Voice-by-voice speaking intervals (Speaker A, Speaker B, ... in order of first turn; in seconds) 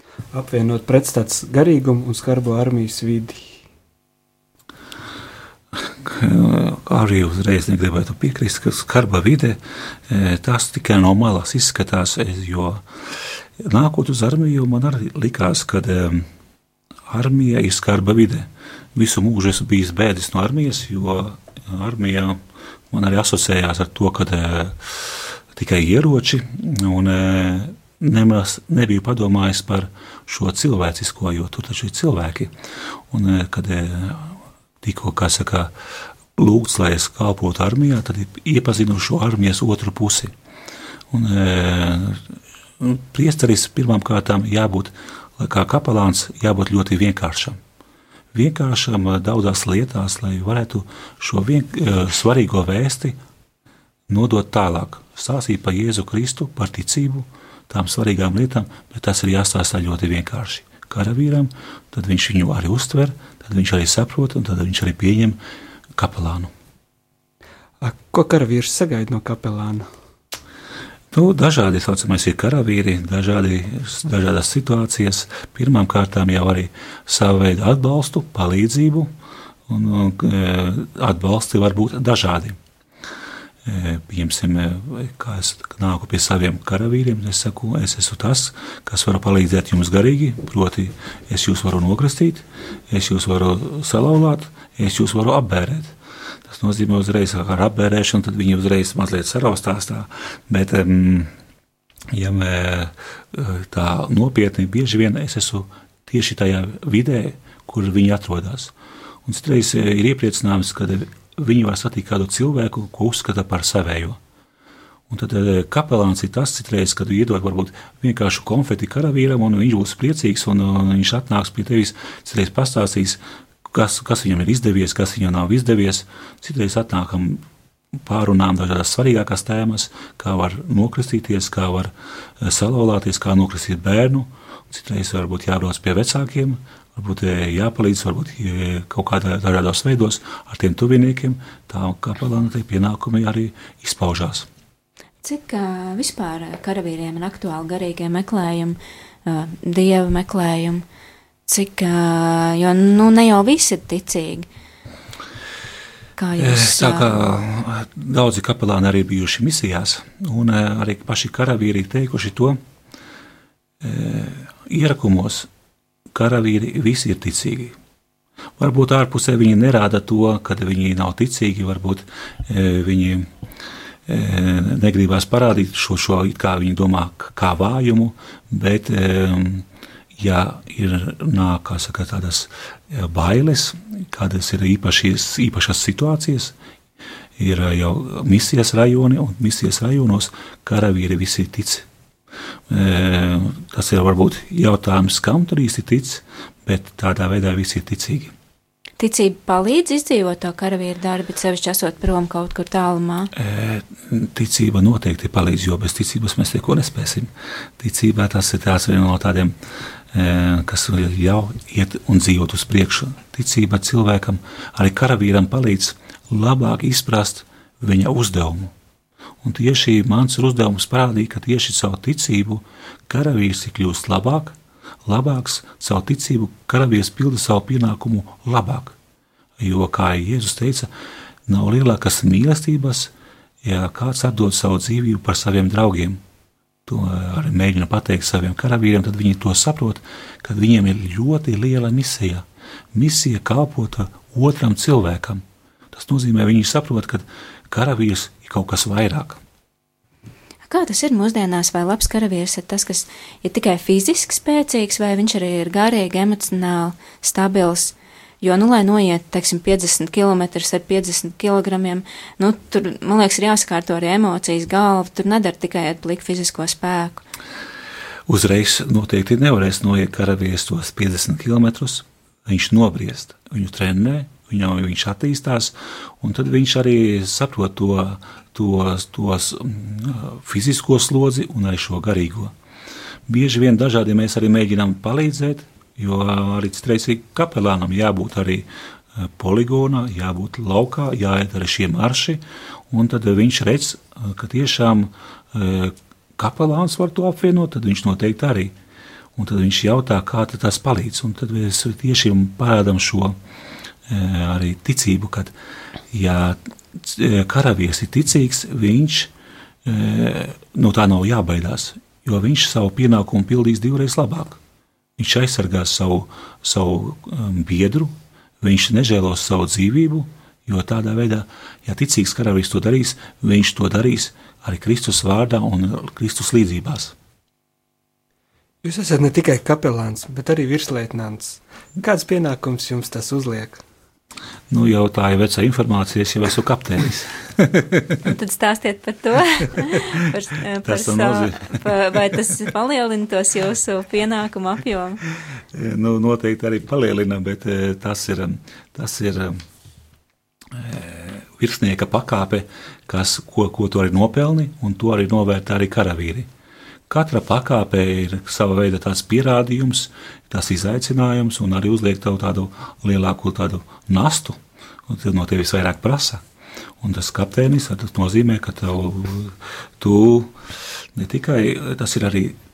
Speaker A: 0.3-3.6, 67.8-69.9, 328.8-333.8
Speaker B: 5.8-12.8, 13.6-16.3, 17.1-22.4, 22.9-32.5, 33.1-35.7, 36.4-40.3, 41.1-42.2, 42.8-47.6, 48.3-53.2, 54.1-65.4, 66.0-66.5, 71.1-79.1, 79.7-82.6, 83.7-101.3, 102.1-108.7, 109.2-114.2, 115.1-144.5, 156.4-162.6, 163.8-165.5, 166.1-167.8, 168.6-173.3, 174.1-186.5, 187.4-191.9, 192.7-198.3, 203.3-209.6, 210.1-218.7, 219.4-229.0, 229.6-230.9, 231.5-233.1, 233.6-236.2, 236.9-249.4, 268.3-282.5, 283.3-298.8, 299.4-303.4, 304.1-305.5, 306.1-309.3, 309.9-314.6, 315.2-327.1, 334.7-338.1, 340.8-341.9, 345.7-349.6, 350.7-356.5, 357.1-366.4, 367.0-370.5, 371.1-372.6
Speaker C: 145.2-150.8, 151.5-154.5, 156.2-157.2, 199.0-203.3, 250.7-267.2, 338.2-345.2